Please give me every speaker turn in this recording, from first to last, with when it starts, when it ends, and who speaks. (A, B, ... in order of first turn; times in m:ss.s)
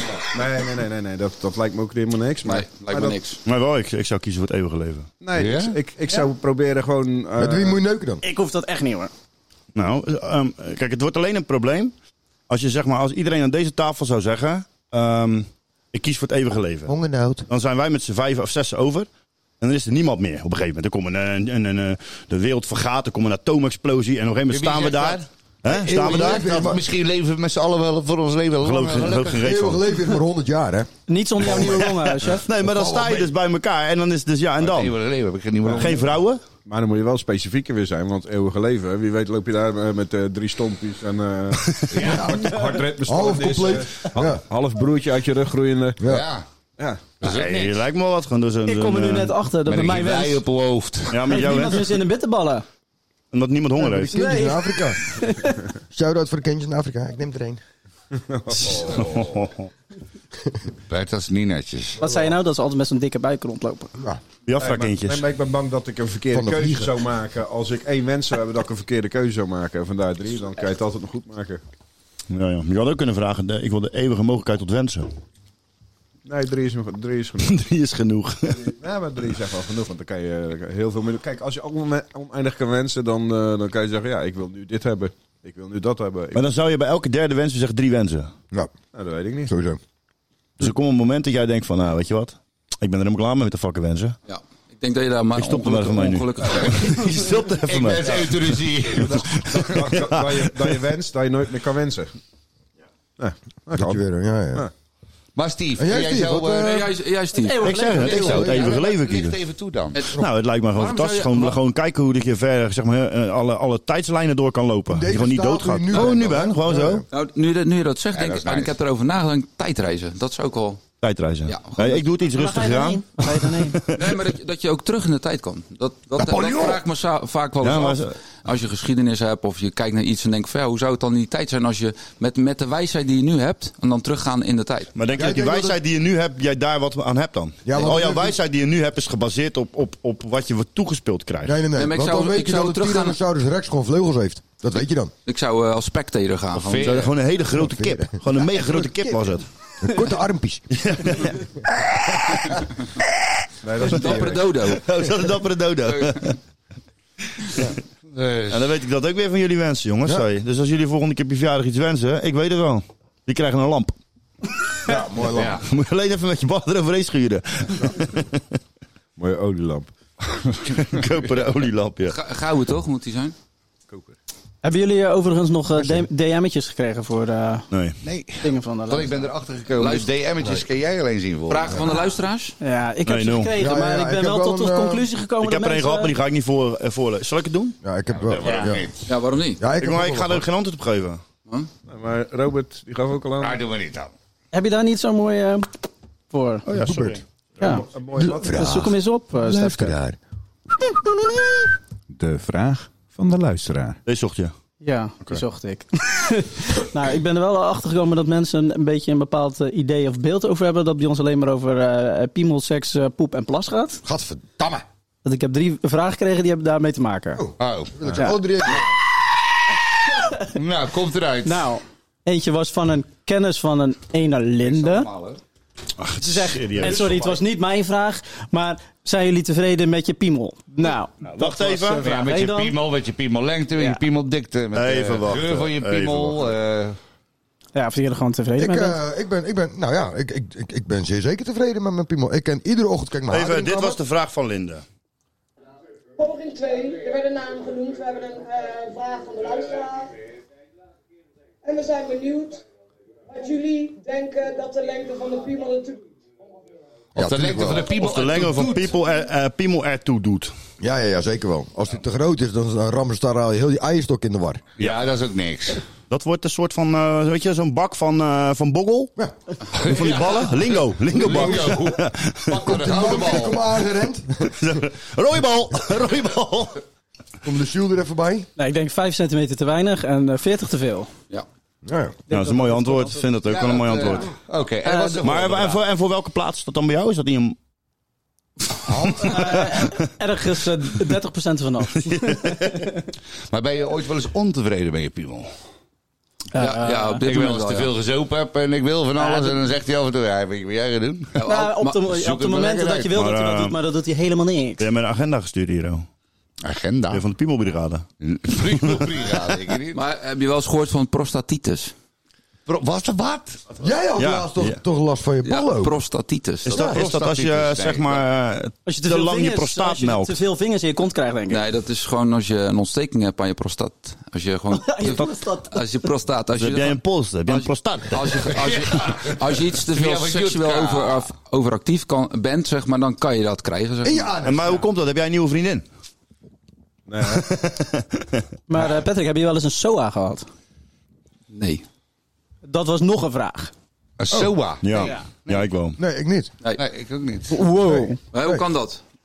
0:00.2-0:03.2 A
0:02.4-0:03.4 B
0:03.4-0:05.1 C
0:05.2-0:07.8 A
0:05.3-0:05.8 D
0:07.4-0:08.2 E
0:08.2-0:09.1 F
0:09.7-0:11.9 C
0:12.5-0:16.9 C
0:16.9-0:17.4 E
0:17.5-0:19.1 C
0:19.6-0:26.6 C
0:24.5-0:29.6 D
0:25.7-0:26.8 E
0:28.6-0:29.8 C
0:29.4-0:30.9 E
0:31.1-0:32.4 F
0:31.4-0:35.0 C
0:34.6-0:36.0 D
0:35.7-0:36.0 A
0:35.7-0:36.4 C
0:36.6-0:46.0 A
0:41.6-0:42.1 C
0:41.9-0:42.5 D
0:42.2-0:44.4 E
0:46.0-0:46.2 E
0:46.0-0:46.4 D
0:46.8-0:47.1 A
0:47.2-0:47.8 D
0:47.2-0:49.3 C
0:48.6-0:50.4 F
0:49.7-0:51.4 D
0:51.1-0:52.0 C
0:51.3-0:52.6 F
0:53.3-0:54.1 C
0:53.8-0:55.6 F
0:54.1-0:55.0 E
0:55.9-0:57.6 E
0:58.2-0:59.4 A
0:58.6-0:59.7 C
1:00.9-1:02.0 D
1:02.0-1:03.9 F
1:04.4-1:05.2 C
1:04.6-1:11.6 A
1:06.3-1:06.9 E
1:12.3-1:15.1 C
1:16.2-1:17.6 A
1:17.4-1:18.7 C
1:18.6-1:26.4 A
1:26.3-1:28.3 C
1:28.9-1:29.5 A
1:29.5-1:29.8 E
1:30.6-1:34.2 C
1:34.3-1:37.0 B
1:35.4-1:38.3 C
1:37.6-1:39.8 D
1:39.1-1:42.1 A
1:39.6-1:40.4 C
1:43.2-1:44.0 A
1:43.7-1:44.6 E
1:45.4-1:46.9 D
1:45.8-1:46.9 E
1:46.5-1:47.7 B
1:47.3-1:48.4 F
1:47.6-1:49.4 C
1:47.9-1:50.0 D
1:48.1-1:48.7 E
1:49.9-1:51.6 B
1:50.2-1:57.0 C
1:54.9-1:57.0 E
1:57.1-2:00.8 B
1:58.1-1:58.8 D
2:01.0-2:04.2 C
2:01.4-2:02.0 B
2:02.3-2:03.8 F
2:04.0-2:14.9 B
2:06.2-2:06.8 E
2:07.6-2:08.2 C
2:14.9-2:21.6 C
2:15.1-2:15.8 E
2:17.6-2:18.4 E
2:21.4-2:25.1 E
2:21.7-2:23.2 B
2:25.2-2:27.0 B
2:26.5-2:29.4 C
2:26.7-2:27.1 D
2:27.6-2:29.2 E
2:29.8-2:30.7 E
2:30.7-2:31.5 C
2:33.6-2:34.5 A
2:33.8-2:34.9 B
2:34.6-2:36.4 C
2:38.1-2:38.7 D
2:38.5-2:44.0 C
2:44.8-2:45.6 E
2:45.4-2:45.6 D
2:45.5-2:48.4 C
2:49.2-2:49.9 A
2:50.7-2:52.2 C
2:52.0-2:53.3 B
2:53.9-2:54.1 A
2:54.6-2:57.7 F
2:57.7-2:58.0 C
2:58.0-3:02.0 D
2:58.4-2:59.2 F
2:59.8-3:00.1 B
3:01.5-3:02.5 B
3:02.6-3:06.1 F
3:03.0-3:03.6 C
3:03.6-3:05.0 E
3:05.4-3:07.8 C
3:07.8-3:08.8 E
3:08.1-3:09.0 D
3:09.1-3:09.7 B
3:09.6-3:10.4 E
3:09.7-3:11.2 C
3:11.9-3:13.6 A
3:13.4-3:14.1 D
3:14.5-3:15.7 F
3:16.3-3:16.6 F
3:16.6-3:17.2 C
3:16.8-3:17.2 E
3:17.6-3:18.8 A
3:17.6-3:20.0 F
3:18.2-3:20.2 E
3:22.2-3:24.0 A
3:24.0-3:24.5 C
3:24.8-3:34.0 F
3:34.0-3:34.8 E
3:35.2-3:37.4 F
3:37.4-3:38.9 E
3:37.6-3:38.1 D
3:40.4-3:41.7 D
3:41.4-3:45.1 F
3:44.6-3:45.4 D
3:46.0-3:47.2 C
3:46.2-3:52.8 F
3:51.2-3:52.0 C
3:52.0-3:57.0 D
3:53.7-3:54.0 F
3:54.7-3:56.5 C
3:57.7-3:59.0 F
3:58.6-4:04.0 E
4:03.3-4:04.8 C
4:06.2-4:10.1 G
4:11.6-4:12.6 G
4:13.3-4:16.0 G
4:17.1-4:17.9 E
4:17.2-4:18.9 D
4:17.9-4:20.5 C
4:20.8-4:24.6 E
4:24.8-4:25.8 D
4:26.1-4:29.1 C
4:29.8-4:33.7 D
4:29.8-4:32.5 C
4:31.2-4:31.8 E
4:32.6-4:34.5 E
4:34.6-4:36.8 C
4:37.4-4:38.5 E
4:38.6-4:41.1 F
4:41.8-4:42.2 E
4:42.3-4:43.3 F
4:42.3-4:44.3 C
4:43.4-4:45.8 D
4:44.8-4:45.2 F
4:45.2-4:47.6 C
4:49.1-4:49.9 C
4:49.2-4:53.1 F
4:52.0-4:52.8 C
4:53.5-4:55.5 D
4:56.5-4:57.2 F
4:56.6-4:57.9 B
4:57.2-5:01.4 D
4:59.2-4:59.6 F
5:01.3-5:02.0 B
5:01.4-5:04.9 F
5:02.1-5:03.1 D
5:03.1-5:03.8 C
5:04.8-5:06.0 C
5:06.6-5:07.2 D
5:07.1-5:08.0 C
5:08.2-5:10.0 D
5:08.7-5:09.0 C
5:09.9-5:11.9 B
5:12.7-5:13.8 D
5:13.8-5:15.9 E
5:14.2-5:14.8 C
5:15.4-5:16.8 B
5:16.6-5:20.4 C
5:16.7-5:17.0 E
5:16.8-5:18.2 D
5:18.8-5:21.6 F
5:21.5-5:34.4 B
5:24.7-5:25.8 F
5:26.6-5:28.4 C
5:28.5-5:31.3 D
5:34.0-5:34.8 E
5:34.4-5:35.8 C
5:37.1-5:37.5 A
5:37.3-5:38.4 C
5:38.7-5:40.5 F
5:41.5-5:41.8 B
5:42.6-5:43.7 F
5:44.2-5:45.7 D
5:44.8-5:46.0 C
5:46.0-5:46.5 E
5:46.8-5:47.6 D
5:47.5-5:48.2 F
5:47.8-5:48.6 E
5:48.3-5:49.0 B